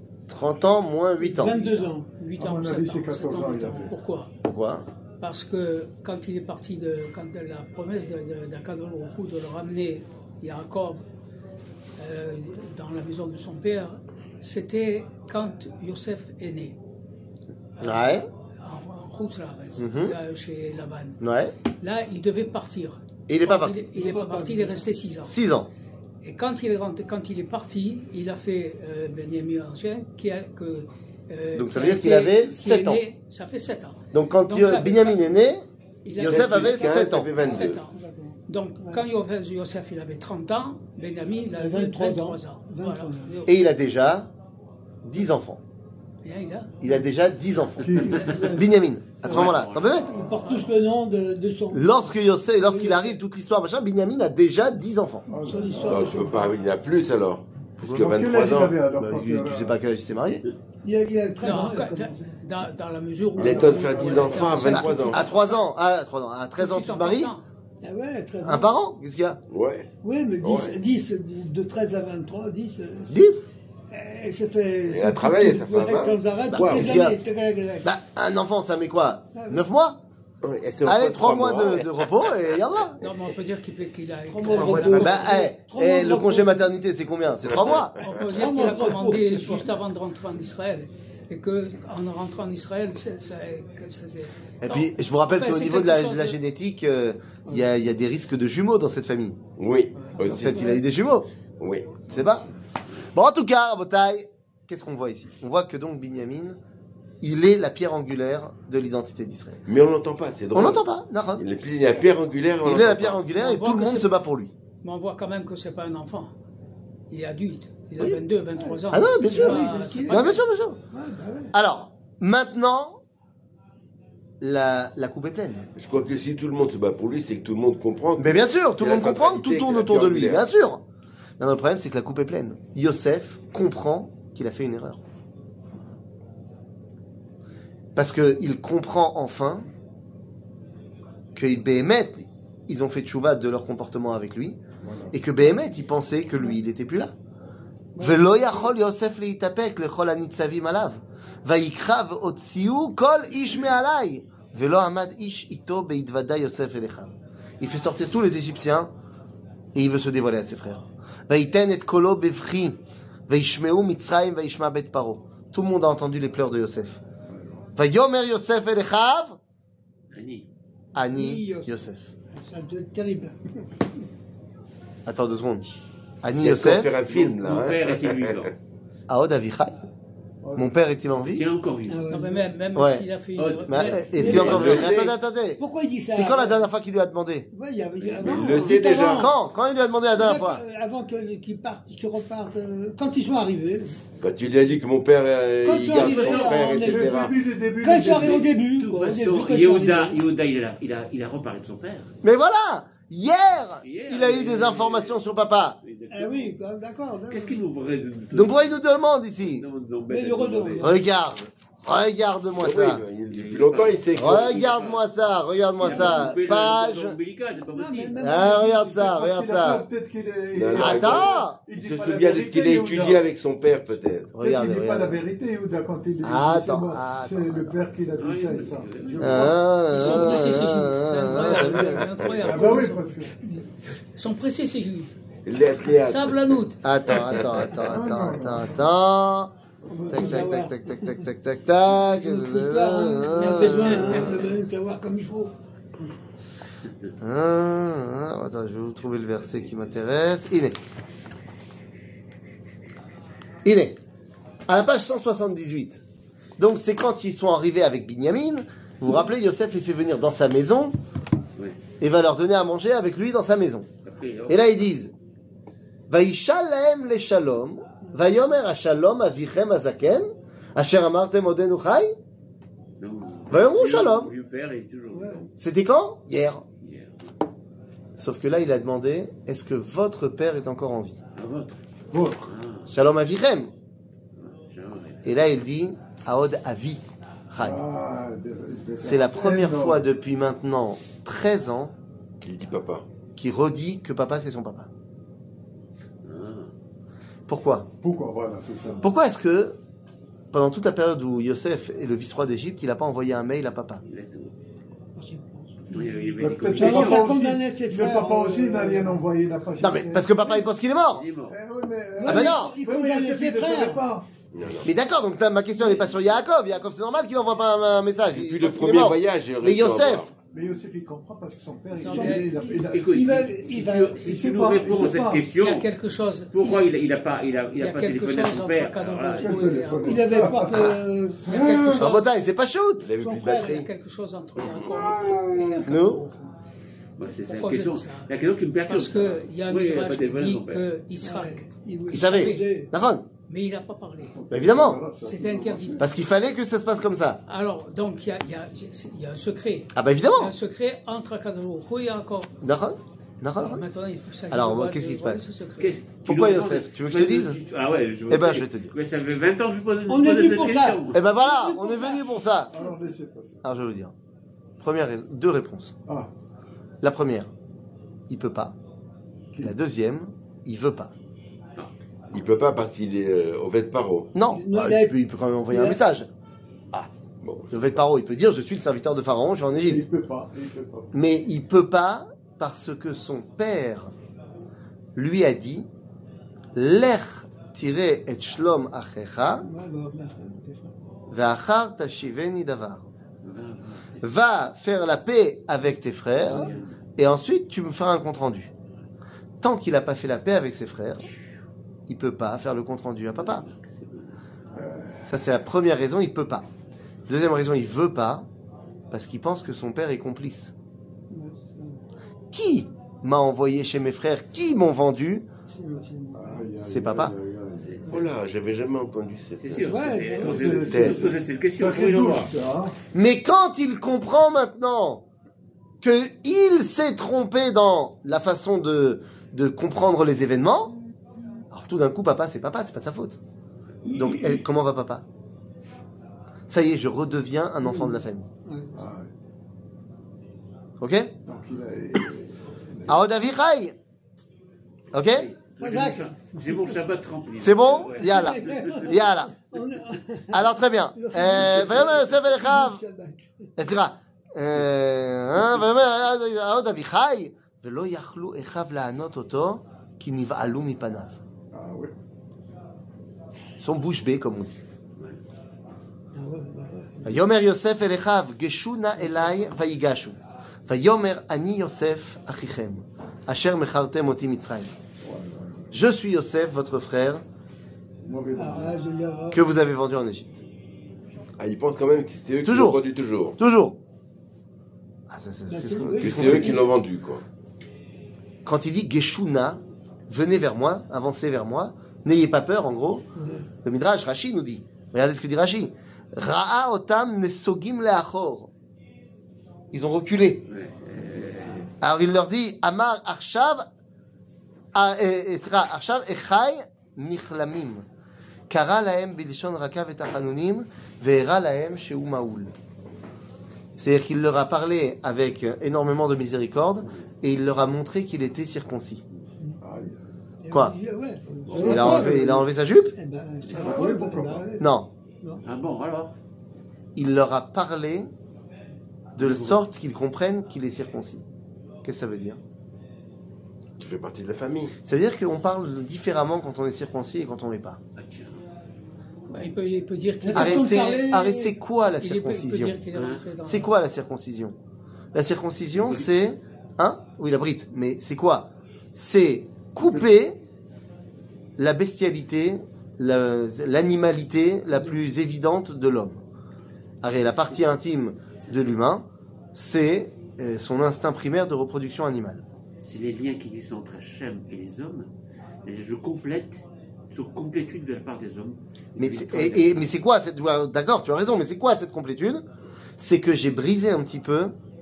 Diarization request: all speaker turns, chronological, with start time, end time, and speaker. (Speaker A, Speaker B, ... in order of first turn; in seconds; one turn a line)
Speaker A: 0.3-1.6
Speaker B: 1.2-2.2
Speaker C: 1.5-4.3
Speaker D: 2.4-4.0
Speaker A: 4.4-4.9
Speaker C: 5.2-11.0
Speaker C: 12.0-16.8
Speaker A: 17.8-18.3
Speaker C: 18.6-21.2
Speaker A: 19.8-20.2
Speaker A: 21.2-21.5
Speaker C: 21.8-25.3
Speaker A: 23.3-23.9
Speaker B: 23.9-24.9
Speaker A: 25.2-25.7
Speaker C: 26.2-35.3
Speaker A: 31.6-33.0
Speaker A: 34.1-35.6
Speaker C: 36.0-43.5
Speaker A: 36.2-37.5
Speaker E: 36.2-37.8
Speaker B: 37.1-39.0
Speaker B: 41.4-43.4
Speaker A: 43.5-44.3
Speaker A: 45.0-45.6
Speaker C: 46.2-46.7
Speaker A: 46.8-50.1
Speaker D: 47.8-48.5
Speaker B: 48.1-48.8
Speaker F: 49.2-50.7
Speaker B: 50.1-53.2
Speaker A: 51.7-55.3
Speaker D: 55.3-56.5
Speaker B: 55.3-56.5
Speaker E: 55.8-58.9
Speaker A: 57.8-58.2
Speaker D: 57.9-59.8
Speaker A: 59.0-60.4
Speaker B: 60.8-62.5
Speaker C: 61.4-65.4
Speaker D: 63.4-64.7
Speaker E: 63.4-65.3
Speaker A: 64.7-67.3
Speaker C: 66.6-67.4
Speaker B: 67.8-68.7
Speaker A: 68.4-69.4
Speaker E: 69.5-69.9
Speaker B: 70.0-73.2
Speaker E: 70.4-70.8
Speaker A: 73.1-73.5
Speaker B: 73.9-77.9
Speaker E: 74.9-77.1
Speaker A: 76.5-77.2
Speaker A: 77.8-80.0
Speaker B: 79.3-79.6
Speaker E: 80.4-82.3
Speaker A: 80.8-83.0
Speaker C: 83.0-85.4
Speaker B: 84.3-86.7
Speaker A: 84.5-87.9
Speaker E: 87.4-88.3
Speaker C: 88.0-96.4
Speaker B: 88.3-89.8
Speaker A: 94.6-99.5
Speaker E: 99.6-100.7
Speaker B: 100.0-100.8
Speaker A: 100.2-101.3
Speaker E: 101.6-102.1
Speaker A: 102.1-102.5
Speaker A: 103.1-106.6
Speaker A: 107.2-109.6
Speaker E: 109.7-110.8
Speaker A: 110.5-111.4
Speaker E: 111.4-113.3
Speaker A: 112.6-114.5
Speaker C: 113.3-114.1
Speaker C: 114.8-116.3
Speaker C: 117.1-120.4
Speaker B: 118.6-120.4
Speaker A: 118.9-120.8
Speaker B: 120.9-121.5
Speaker A: 121.5-123.0
Speaker A: 124.4-125.7
Speaker E: 125.8-130.4
Speaker A: 128.2-130.8
Speaker A: 131.4-135.0
Speaker A: 137.9-139.7
Speaker A: 141.3-144.6
Speaker D: 144.8-145.2
Speaker A: 145.1-147.1
Speaker B: 147.9-148.4
Speaker A: 148.0-158.9
Speaker A: 159.7-167.0
Speaker D: 167.3-167.7
Speaker A: 167.8-169.4
Speaker F: 170.1-170.5
Speaker A: 170.9-172.1
Speaker B: 171.1-171.7
Speaker B: 172.3-173.8
Speaker A: 175.1-177.0
Speaker E: 176.4-178.4
Speaker F: 177.1-178.5
Speaker A: 179.1-179.8
Speaker D: 180.4-180.7
Speaker A: 180.6-181.5
Speaker F: 181.3-182.1
Speaker B: 181.9-182.6
Speaker C: 182.1-184.5
Speaker A: 182.8-183.1
Speaker F: 183.4-184.8
Speaker A: 183.7-187.5
Speaker B: 184.1-185.1
Speaker E: 184.3-185.2
Speaker B: 185.6-186.6
Speaker B: 187.5-189.3
Speaker F: 188.0-189.1
Speaker E: 188.2-189.3
Speaker A: 189.1-190.6
Speaker B: 190.2-194.0
Speaker E: 194.2-197.4
Speaker B: 195.6-197.3
Speaker F: 195.9-196.7
Speaker D: 196.8-198.5
Speaker B: 197.8-200.2
Speaker F: 198.1-202.1
Speaker A: 202.2-205.8
Speaker F: 203.8-205.2
Speaker F: 205.8-206.5
Speaker B: 206.1-207.6
Speaker F: 207.3-208.8
Speaker A: 208.3-209.6
Speaker F: 209.4-210.9
Speaker B: 210.1-211.0
Speaker A: 210.8-213.0
Speaker E: 212.6-214.6
Speaker F: 213.3-215.1
Speaker A: 214.2-217.2
Speaker F: 215.8-218.4
Speaker B: 216.0-216.2
Speaker B: 217.7-219.0
Speaker A: 218.2-219.8
Speaker D: 218.7-223.3
Speaker E: 220.5-224.3
Speaker A: 220.7-221.6
Speaker A: 224.3-225.2
Speaker D: 224.4-230.5
Speaker A: 226.2-227.8
Speaker F: 228.2-229.6
Speaker A: 229.2-231.8
Speaker C: 229.9-233.2
Speaker D: 232.3-233.4
Speaker C: 234.2-235.1
Speaker E: 235.5-236.6
Speaker C: 235.8-236.8
Speaker A: 236.8-239.5
Speaker E: 237.1-237.4
Speaker D: 237.7-238.9
Speaker D: 239.8-240.5
Speaker B: 239.9-241.3
Speaker A: 240.1-244.4
Speaker B: 241.9-245.5
Speaker A: 247.2-250.8
Speaker A: 253.7-254.0
Speaker A: 254.7-256.0
Speaker A: 256.6-260.9
Speaker A: 262.0-263.9
Speaker F: 264.0-264.9
Speaker A: 264.5-265.1
Speaker A: 266.1-272.1
Speaker B: 268.0-268.3
Speaker F: 273.0-275.5
Speaker A: 273.5-274.3
Speaker B: 275.1-275.4
Speaker A: 275.6-276.6
Speaker F: 276.8-277.3
Speaker A: 278.2-281.2
Speaker F: 281.4-281.8
Speaker D: 282.1-282.5
Speaker F: 282.4-282.9
Speaker A: 282.9-283.7
Speaker F: 284.4-285.2
Speaker A: 285.2-287.8
Speaker D: 287.6-290.0
Speaker A: 289.0-291.9
Speaker E: 292.4-293.1
Speaker A: 293.4-294.9
Speaker F: 296.2-296.7
Speaker A: 297.5-297.9
Speaker D: 298.0-299.1
Speaker A: 299.0-299.8
Speaker A: 300.5-304.0
Speaker F: 304.1-304.6
Speaker B: 305.2-306.1
Speaker F: 305.9-307.3
Speaker D: 305.9-310.6
Speaker B: 306.7-309.2
Speaker A: 309.8-311.2
Speaker F: 311.1-311.6
Speaker D: 311.5-314.3
Speaker B: 312.2-314.1
Speaker A: 312.3-312.7
Speaker E: 314.5-314.9
Speaker A: 314.8-320.3
Speaker E: 318.3-320.3
Speaker D: 320.5-323.6
Speaker C: 322.0-322.6
Speaker B: 322.0-324.6
Speaker F: 322.9-325.9
Speaker D: 324.1-325.5
Speaker C: 325.5-326.8
Speaker F: 326.5-329.6
Speaker C: 327.8-330.6
Speaker D: 329.4-332.1
Speaker B: 329.9-332.0
Speaker C: 331.4-332.3
Speaker A: 332.0-333.1
Speaker E: 333.0-333.9
Speaker B: 333.2-333.8
Speaker C: 333.4-336.5
Speaker D: 334.9-335.9
Speaker A: 335.8-336.3
Speaker F: 337.2-340.9
Speaker C: 337.3-338.3
Speaker C: 338.9-342.7
Speaker B: 341.2-342.9
Speaker A: 342.1-343.3
Speaker C: 343.5-344.4
Speaker D: 344.3-346.1
Speaker A: 344.5-345.0
Speaker C: 345.2-346.1
Speaker A: 346.0-347.4
Speaker C: 347.5-352.5
Speaker A: 349.9-350.5
Speaker A: 352.6-353.8
Speaker C: 353.6-356.0
Speaker A: 354.5-355.5
Speaker F: 355.8-361.2
Speaker A: 356.2-357.6
Speaker A: 358.3-358.9
Speaker B: 360.1-362.9
Speaker A: 361.1-362.7
Speaker D: 362.7-363.6
Speaker A: 363.6-364.1
Speaker A: 364.8-365.9
Speaker A: 367.0-367.5
Speaker A: 368.3-368.8
Speaker A: 369.6-371.1
Speaker E: 372.3-374.3
Speaker A: 374.4-376.3
Speaker B: 374.5-375.2
Speaker B: 375.7-376.0
Speaker E: 377.4-377.7
Speaker A: 377.7-380.1
Speaker D: 379.8-381.1
Speaker A: 381.1-384.1
Speaker A: 385.1-385.9
Speaker A: 386.7-389.7
Speaker B: 389.6-390.9
Speaker A: 391.3-393.1
Speaker F: 393.4-394.3
Speaker A: 394.2-398.7
Speaker F: 396.4-396.9
Speaker B: 396.5-396.8
Speaker A: 399.6-401.3
Speaker A: 402.1-403.6
Speaker F: 403.4-404.4
Speaker D: 404.7-405.4
Speaker A: 405.3-406.7
Speaker A: 407.3-408.5
Speaker A: 409.1-410.7
Speaker B: 411.3-412.0
Speaker A: 412.5-415.5
Speaker B: 415.7-416.7
Speaker D: 416.3-418.2
Speaker A: 416.8-417.4
Speaker F: 417.8-418.4
Speaker E: 418.1-419.9
Speaker F: 419.6-422.5
Speaker B: 419.9-420.9
Speaker D: 420.3-423.0
Speaker E: 420.9-421.3
Speaker A: 423.1-425.2
Speaker A: 426.0-430.9
Speaker A: 431.7-433.4
Speaker A: 434.1-435.2
Speaker A: 436.7-438.5
Speaker B: 437.8-439.0
Speaker D: 438.9-439.3
Speaker A: 441.0-441.3
Speaker D: 441.4-443.2
Speaker A: 443.1-444.0
Speaker A: 445.1-445.5
Speaker F: 445.2-449.2
Speaker B: 445.8-447.0
Speaker A: 447.6-449.5
Speaker B: 447.9-453.7
Speaker A: 450.5-453.0
Speaker A: 453.8-461.4
Speaker D: 461.7-462.1
Speaker A: 463.8-464.8
Speaker B: 466.3-467.4
Speaker A: 467.2-474.9
Speaker D: 475.2-475.9
Speaker A: 475.9-477.4
Speaker D: 478.2-479.0
Speaker B: 478.6-479.6
Speaker A: 479.5-480.6
Speaker E: 481.6-483.6
Speaker A: 482.6-483.0
Speaker A: 483.6-484.0
Speaker A: 485.3-486.8
Speaker B: 485.7-486.9
Speaker E: 486.2-487.4
Speaker A: 488.6-493.3
Speaker B: 493.4-493.7
Speaker A: 493.8-498.7
Speaker A: 499.9-500.7
Speaker F: 500.7-501.9
Speaker A: 502.0-503.9
Speaker A: 504.9-508.1
Speaker A: 508.7-512.7
Speaker A: 514.0-519.2
Speaker D: 519.8-520.2
Speaker B: 520.6-524.9
Speaker F: 521.7-522.0
Speaker D: 521.7-522.6
Speaker A: 521.7-523.1
Speaker D: 523.6-524.7
Speaker F: 523.7-524.1
Speaker A: 524.8-525.1
Speaker F: 525.6-526.4
Speaker A: 527.1-528.3
Speaker A: 529.4-531.5
Speaker F: 529.4-529.8
Speaker A: 532.0-532.6
Speaker E: 534.0-535.0
Speaker A: 535.0-538.0
Speaker F: 538.2-538.6
Speaker C: 539.5-541.2
Speaker B: 540.4-541.7
Speaker A: 540.5-543.0
Speaker C: 542.2-543.9
Speaker F: 543.1-543.4
Speaker A: 543.6-544.8
Speaker A: 545.3-550.6
Speaker F: 546.0-546.3
Speaker A: 551.8-556.4
Speaker A: 557.2-562.6
Speaker F: 563.0-565.3
Speaker F: 565.9-570.1
Speaker A: 569.2-572.6
Speaker A: 573.2-574.7